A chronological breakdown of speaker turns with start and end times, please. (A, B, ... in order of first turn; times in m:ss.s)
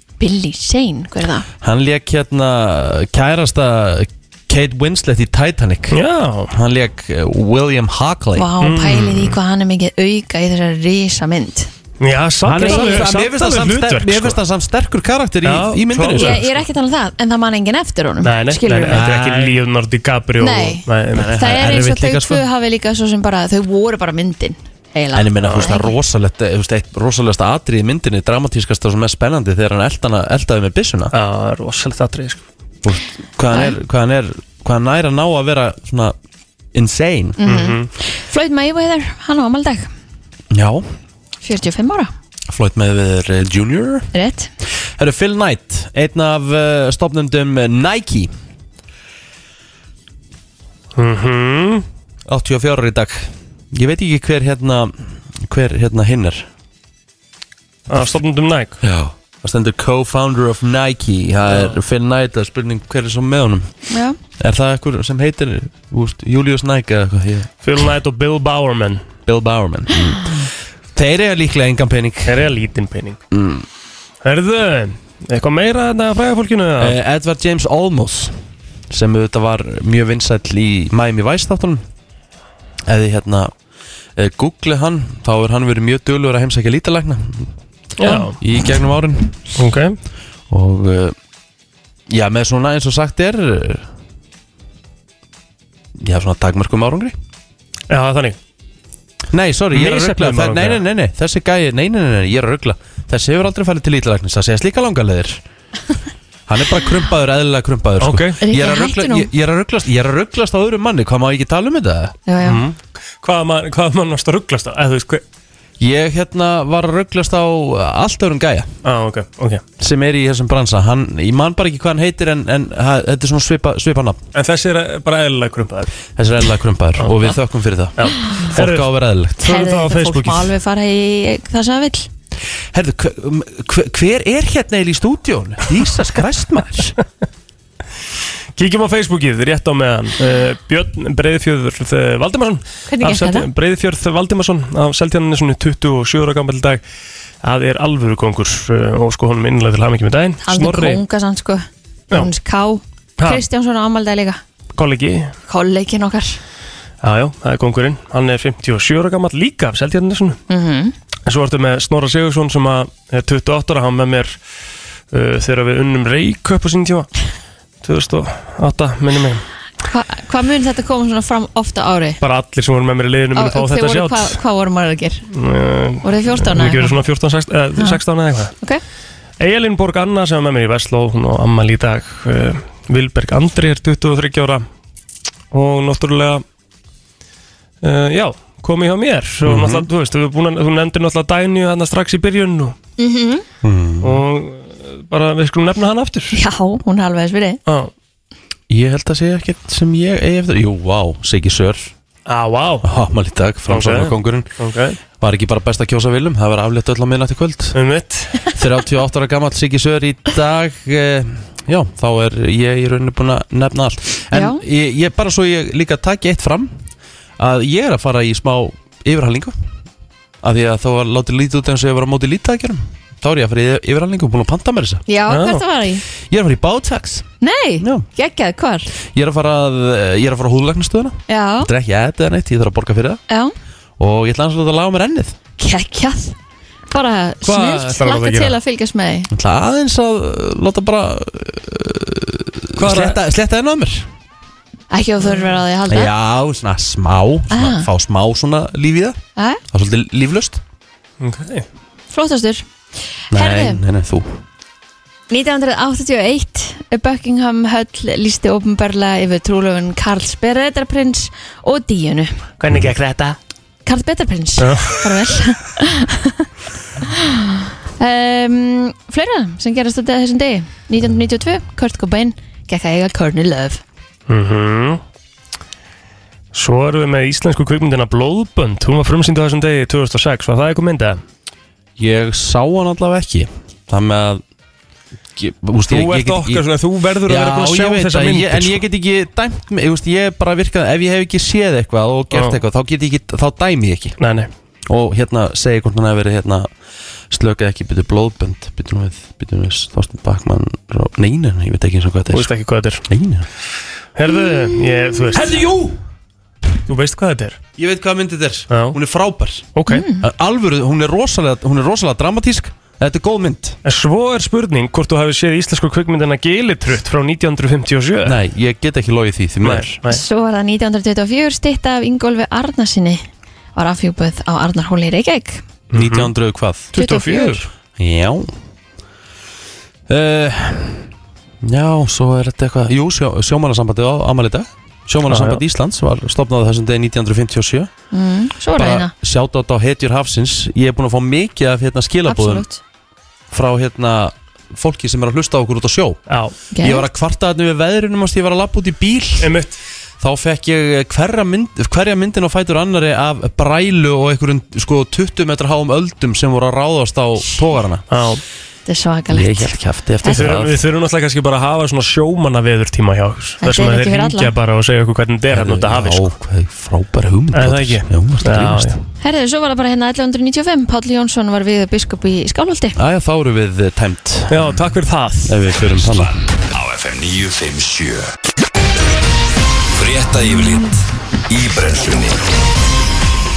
0:00.2-0:01.5 A
0:01.6-0:08.5 B
0:05.9-0:06.5 C
0:08.4-0:11.7 A
0:08.6-0:09.3 C
0:12.0-0:14.4 C
0:12.4-0:16.4 B
0:12.6-0:13.0 A
0:15.4-0:16.6 C
0:16.1-0:19.0 A
0:18.2-0:21.3 C
0:18.9-0:19.6 B
0:20.4-0:25.9 A
0:21.1-0:22.4 B
0:25.1-0:31.1 B
0:31.1-0:32.4 C
0:32.8-0:36.1 B
0:36.7-0:37.4 B
0:37.4-0:39.9 A
0:37.4-0:37.9 C
0:40.5-0:40.8 B
0:41.4-0:42.1 A
0:42.5-0:44.1 B
0:44.1-0:44.5 A
0:45.0-0:48.3 B
0:51.0-0:51.8 C
0:52.3-0:56.5 B
0:57.9-0:58.8 C
0:58.8-1:03.7 B
1:01.5-1:01.8 C
1:03.9-1:04.2 A
1:04.4-1:07.5 B
1:07.6-1:09.0 C
1:09.2-1:12.4 B
1:12.2-1:13.2 C
1:13.3-1:13.6 B
1:14.2-1:16.9 C
1:16.8-1:18.3 B
1:18.9-1:21.8 B
1:22.8-1:23.5 B
1:24.2-1:27.5 B
1:28.0-1:28.4 C
1:28.4-1:29.6 B
1:29.6-1:30.0 C
1:30.5-1:31.1 B
1:32.1-1:33.9 B
1:36.0-1:37.1 B
1:37.9-1:38.4 C
1:39.3-1:45.4 B
1:39.7-1:40.8 C
1:46.5-1:52.2 B
1:48.0-1:48.4 C
1:48.4-1:49.3 A
1:52.3-1:52.6 A
1:52.4-1:55.2 C
1:55.8-1:58.7 B
1:58.8-1:59.6 C
1:59.8-2:04.2 B
2:04.3-2:05.9 C
2:06.2-2:09.5 B
2:07.0-2:07.3 C
2:08.0-2:08.9 C
2:09.4-2:10.5 C
2:09.4-2:12.1 A
2:12.7-2:16.9 B
2:18.6-2:26.8 C
2:22.9-2:23.5 A
2:27.4-2:31.0 C
2:30.4-2:34.4 A
2:34.7-2:35.3 C
2:35.5-2:36.4 A
2:37.0-2:40.4 C
2:40.5-2:40.9 A
2:41.2-2:44.4 C
2:45.1-2:47.1 C
2:47.8-2:49.4 C
2:49.8-2:52.2 A
2:52.2-2:54.4 C
2:53.3-2:55.2 A
2:55.3-2:58.5 C
2:56.0-2:57.0 A
2:59.4-3:04.6 C
3:05.5-3:06.4 C
3:07.8-3:12.8 C
3:09.4-3:09.9 B
3:13.0-3:13.4 A
3:13.6-3:14.2 B
3:14.0-3:16.4 C
3:16.3-3:17.6 A
3:18.7-3:21.9 B
3:22.3-3:22.9 C
3:22.8-3:24.5 B
3:23.7-3:25.0 C
3:25.2-3:27.8 B
3:27.7-3:28.5 C
3:28.5-3:36.7 B
3:34.3-3:34.6 A
3:37.4-3:39.5 B
3:40.4-3:45.0 B
3:45.1-3:46.0 A
3:45.3-3:45.6 C
3:46.3-3:47.2 B
3:47.4-3:48.9 A
3:47.8-3:48.1 B
3:49.0-3:53.2 B
3:51.3-3:51.7 A
3:54.0-3:55.4 B
3:55.6-3:56.4 A
3:56.9-3:59.3 A
3:57.4-3:58.6 C
3:59.3-4:04.1 B
4:02.8-4:03.2 C
4:04.9-4:06.1 A
4:05.9-4:09.2 B
4:07.5-4:07.9 A
4:09.4-4:09.6 A
4:09.7-4:10.6 B
4:11.2-4:11.6 C
4:12.1-4:12.6 A
4:13.3-4:14.4 B
4:13.3-4:13.8 A
4:15.3-4:22.4 A
4:22.6-4:23.4 C
4:23.8-4:26.5 A
4:24.6-4:25.0 C
4:27.0-4:33.8 A
4:34.3-4:35.0 C
4:36.5-4:41.2 C
4:42.0-4:44.4 B
4:45.4-4:46.6 B
4:45.9-4:48.8 C
4:47.2-4:54.2 B
4:52.3-4:52.6 C
4:54.2-4:54.5 C
4:54.9-4:56.7 B
4:57.3-5:02.5 B
5:02.3-5:03.0 C
5:03.1-5:03.5 B
5:04.2-5:05.6 C
5:05.3-5:06.0 B
5:06.9-5:07.6 C
5:07.8-5:09.7 B
5:08.7-5:09.0 C
5:09.7-5:10.0 C
5:09.9-5:10.2 A
5:10.2-5:13.8 B
5:13.8-5:18.4 C
5:18.2-5:20.0 B
5:19.6-5:20.2 C
5:20.1-5:23.2 A
5:23.8-5:25.6 A
5:25.9-5:26.3 C
5:25.9-5:26.9 B
5:26.9-5:27.6 C
5:27.0-5:27.6 A
5:28.0-5:28.5 B
5:30.1-5:31.1 B
5:31.6-5:37.9 B
5:35.3-5:35.6 C
5:38.1-5:39.1 A
5:38.8-5:42.6 B
5:42.3-5:42.8 A
5:43.5-5:46.3 B
5:46.3-5:46.5 C
5:46.7-5:47.0 A
5:46.8-5:49.5 B
5:49.4-5:49.8 C
5:50.2-5:58.0 B
5:58.1-5:58.4 C
5:58.9-6:00.6 A
5:59.3-6:00.8 B
6:00.3-6:06.3 C
6:03.6-6:04.5 A
6:05.5-6:09.0 B
6:07.5-6:09.0 C
6:09.2-6:13.0 A
6:13.0-6:14.8 B
6:14.5-6:15.6 C
6:15.5-6:16.4 B
6:15.9-6:18.3 D
6:19.9-6:22.4 D